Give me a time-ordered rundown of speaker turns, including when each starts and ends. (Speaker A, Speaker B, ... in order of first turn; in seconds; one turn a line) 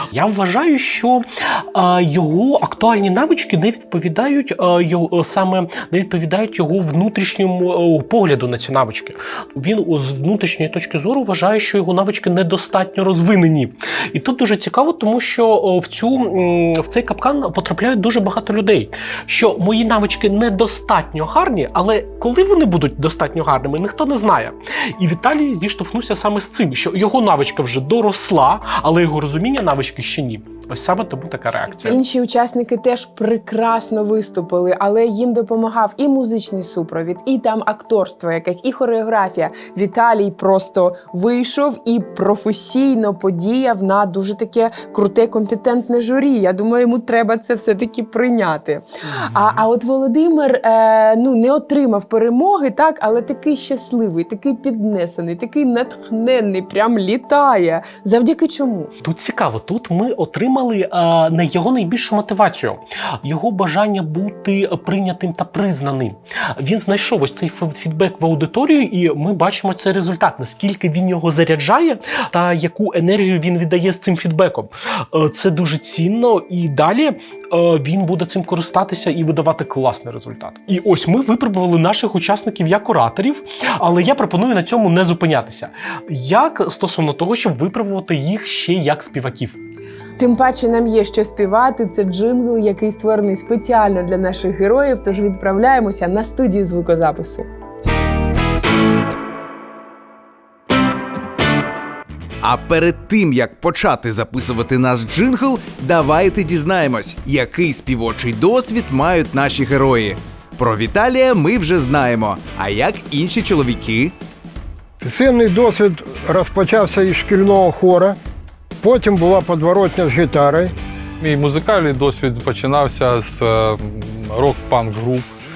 Speaker A: 0.1-32.0
Speaker B: 31.7-58.9
Speaker A: 59.0-89.6
Speaker B: 90.2-97.5
Speaker C: 102.4-114.1
Speaker D: 115.0-118.2
Speaker D: 118.8-120.7
Speaker E: 121.2-125.3